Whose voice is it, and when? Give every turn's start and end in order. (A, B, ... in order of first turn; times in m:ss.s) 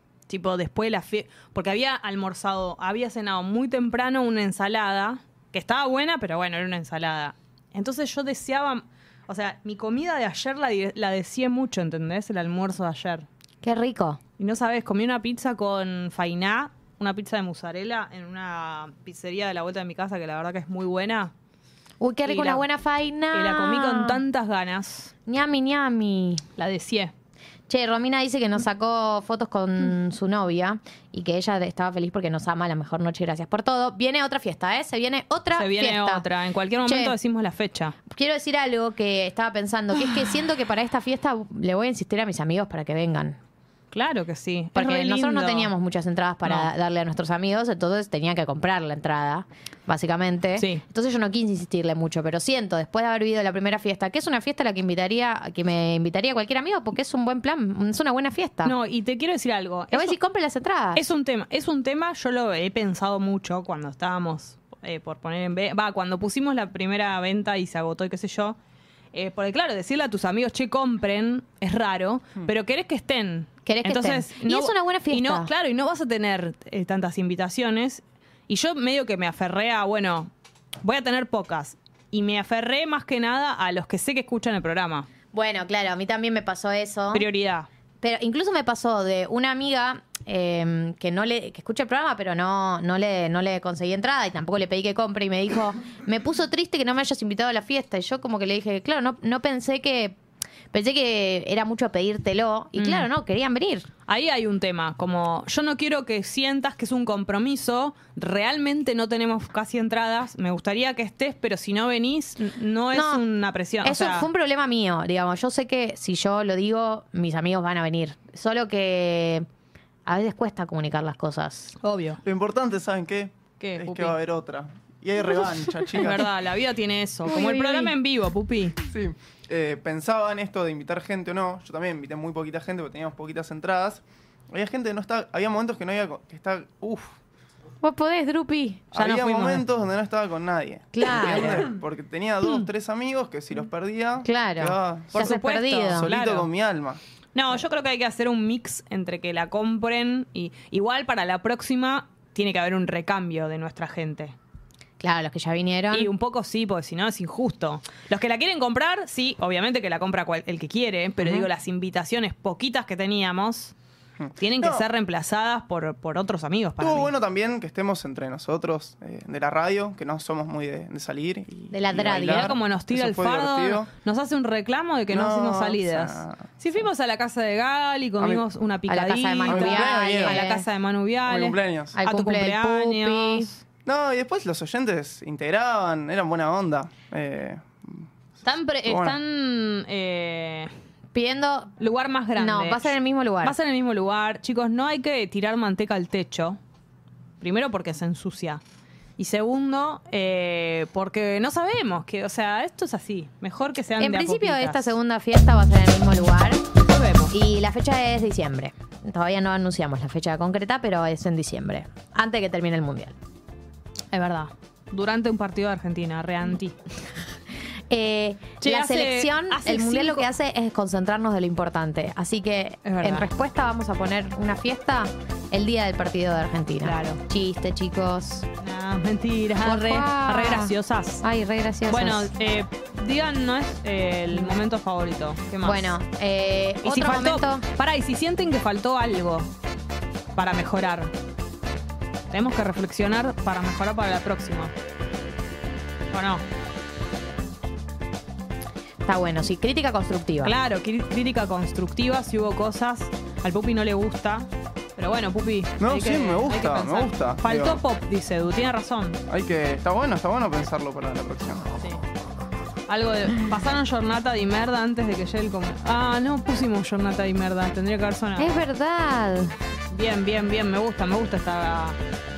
0:00.3-0:13.3 A
0:13.6-0:14.2 B
0:14.4-0:21.3 A
0:22.0-0:24.2 B
0:22.2-0:22.7 A
0:23.3-0:25.1 A
0:25.3-0:26.4 B
0:26.6-0:27.1 A
0:27.7-0:36.3 B
0:35.6-0:38.0 A
0:36.8-0:37.2 B
0:38.1-0:43.4 B
0:43.9-0:45.7 A
0:44.8-0:58.7 B
0:50.6-0:50.8 A
0:58.6-1:00.2 A
0:59.9-1:01.0 B
1:01.0-1:08.6 A
1:09.1-1:25.1 A
1:13.7-1:15.5 B
1:25.3-1:27.3 B
1:27.1-1:27.7 A
1:28.0-1:40.2 B
1:40.7-1:43.9 B
1:42.8-1:43.1 A
1:44.1-1:54.3 A
1:52.9-1:53.2 B
1:53.8-1:59.5 B
2:00.1-2:01.8 B
2:01.8-2:02.2 A
2:02.2-2:06.3 C
2:03.6-2:04.2 A
2:06.0-2:08.8 A
2:07.3-2:07.9 B
2:08.9-2:17.2 C
2:17.8-2:18.8 B
2:18.9-2:27.0 C
2:18.9-2:19.6 A
2:20.9-2:21.7 B
2:21.1-2:21.7 A
2:24.2-2:26.1 B
2:25.1-2:26.5 A
2:27.4-2:34.4 A
2:35.0-2:36.1 B
2:35.9-2:43.7 A
2:41.2-2:41.5 B
2:44.2-2:44.8 C
2:44.4-2:47.1 A
2:46.8-2:53.9 C
2:51.7-2:52.6 B
2:52.2-3:03.6 A
2:55.1-2:56.4 C
2:58.2-2:58.4 C
2:58.9-3:00.6 B
2:59.5-3:00.5 C
3:01.2-3:02.0 C
3:01.9-3:03.5 B
3:03.9-3:08.1 C
3:08.4-3:10.7 A
3:08.8-3:09.2 C
3:11.1-3:11.8 B
3:11.8-3:16.6 A
3:12.4-3:13.6 B
3:17.4-3:18.6 A
3:19.2-3:24.9 A
3:24.0-3:26.7 B
3:26.8-3:27.3 A
3:27.3-3:33.2 B
3:34.1-3:36.8 A
3:37.9-3:48.5 B
3:38.6-3:40.3 A
3:42.8-3:43.3 A
3:46.8-3:47.2 A
3:48.6-3:51.2 A
3:49.6-3:52.3 B
3:51.9-3:55.9 A
3:55.6-3:57.7 B
3:56.8-3:59.5 A
4:00.4-4:01.1 A
4:02.3-4:04.7 A
4:06.1-4:06.4 A
4:09.0-4:10.5 B
4:10.4-4:19.2 A
4:15.8-4:17.8 C
4:19.3-4:21.9 C
4:22.9-4:28.6 A
4:28.4-4:29.6 B
4:29.9-4:32.0 A